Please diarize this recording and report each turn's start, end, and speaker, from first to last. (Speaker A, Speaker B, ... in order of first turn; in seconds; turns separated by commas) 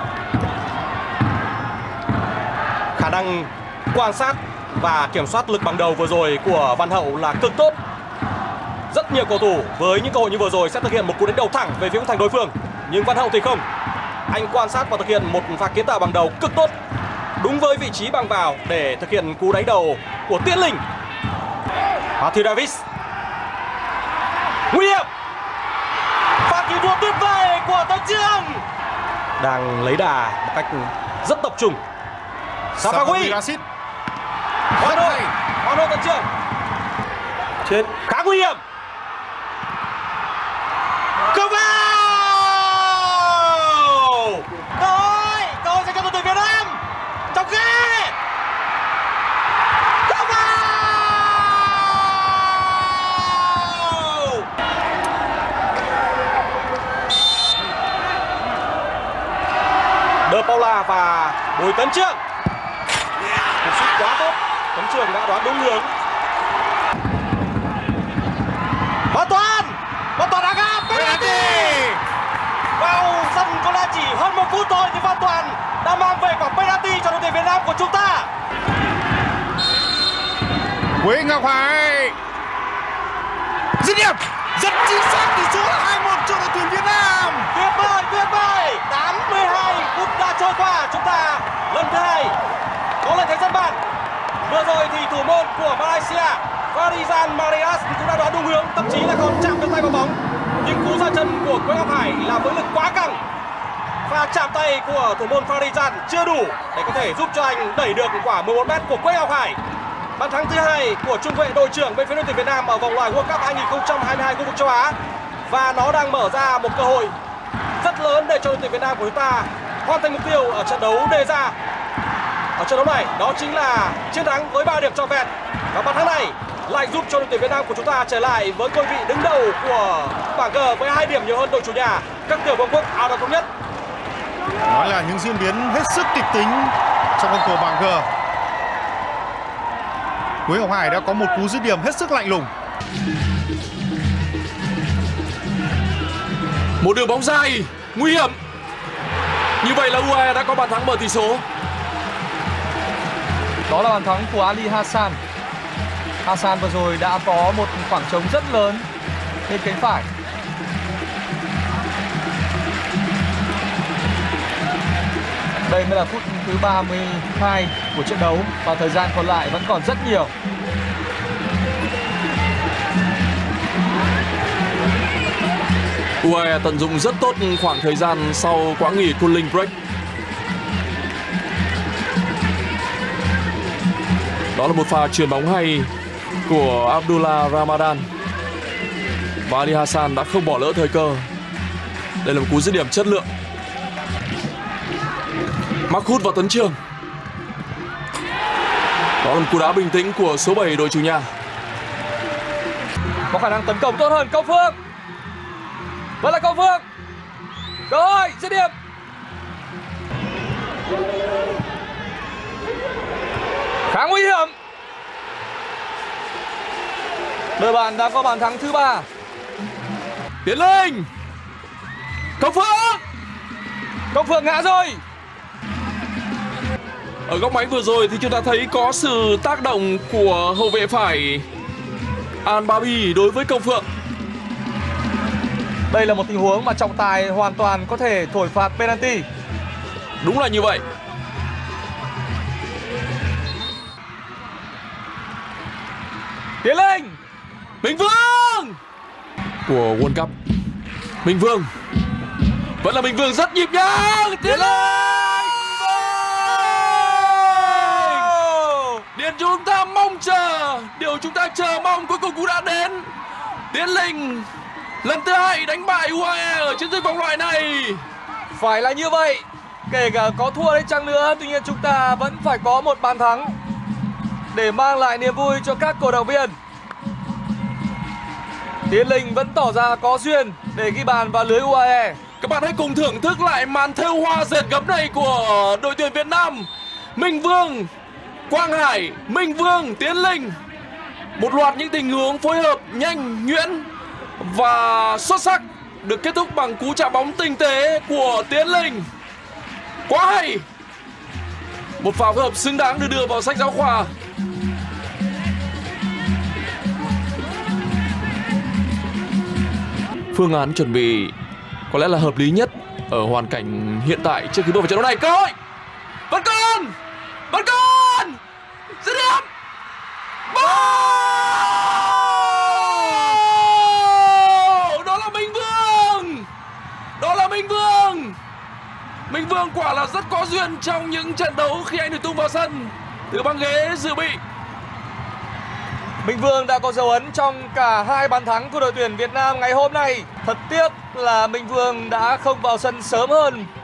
Speaker A: 3.0-7.8, Speaker A: 8.9-13.7, Speaker A: 14.3-16.7, Speaker A: 17.4-20.8, Speaker A: 22.2-22.8, Speaker A: 24.7-25.1, Speaker A: 26.4-28.6, Speaker A: 29.4-31.8, Speaker A: 32.8-33.4, Speaker B: 32.8-33.6, Speaker A: 34.8-36.3, Speaker B: 34.8-35.3, Speaker A: 37.7-38.6, Speaker A: 41.3-48.1, Speaker A: 50.1-54.5, Speaker A: 60.2-62.2, Speaker A: 63.6-65.9, Speaker A: 69.1-71.9, Speaker B: 70.9-72.0, Speaker A: 72.8-78.3, Speaker B: 81.0-82.2, Speaker B: 83.8-87.5, Speaker A: 87.5-92.4, Speaker A: 93.0-93.8, Speaker A: 94.5-103.2, Speaker A: 104.1-109.6, Speaker A: 110.2-115.0, Speaker A: 115.5-117.2, Speaker A: 117.8-121.5, Speaker A: 122.5-133.5, Speaker B: 134.6-138.1, Speaker B: 140.5-142.5, Speaker C: 146.8-148.4, Speaker C: 149.6-151.4, Speaker D: 153.7-155.2, Speaker D: 156.2-158.9, Speaker D: 159.5-160.1, Speaker D: 165.7-170.3, Speaker C: 176.2-179.7, Speaker C: 184.5-185.9, Speaker C: 186.5-188.1, Speaker C: 189.4-191.2, Speaker C: 192.2-193.3, Speaker C: 195.9-196.8, Speaker C: 199.2-201.3, Speaker D: 203.3-204.8, Speaker D: 206.2-206.9, Speaker D: 207.9-208.7, Speaker D: 213.9-214.5, Speaker D: 217.6-219.1, Speaker C: 220.4-221.1, Speaker C: 222.4-223.0, Speaker D: 224.1-225.0, Speaker C: 227.3-231.4, Speaker C: 232.4-233.9, Speaker D: 235.9-239.2, Speaker C: 240.2-240.8, Speaker D: 246.6-247.2, Speaker C: 247.8-248.8, Speaker C: 249.7-250.3, Speaker C: 251.2-251.7, Speaker C: 252.8-258.4, Speaker D: 254.4-255.5, Speaker D: 256.9-259.0, Speaker C: 259.1-263.1, Speaker C: 263.7-264.5, Speaker C: 265.0-268.0, Speaker D: 268.5-273.5, Speaker D: 274.5-276.6, Speaker D: 278.9-282.2, Speaker C: 282.4-287.9, Speaker C: 288.5-290.6, Speaker C: 291.4-293.9, Speaker C: 294.4-299.1, Speaker C: 300.1-300.6, Speaker C: 302.0-304.1, Speaker C: 310.3-311.3, Speaker C: 311.9-315.5, Speaker C: 316.3-316.9, Speaker C: 317.5-318.4, Speaker C: 319.0-319.5, Speaker C: 320.5-326.5, Speaker C: 327.2-328.4, Speaker C: 329.3-334.4, Speaker D: 336.2-343.7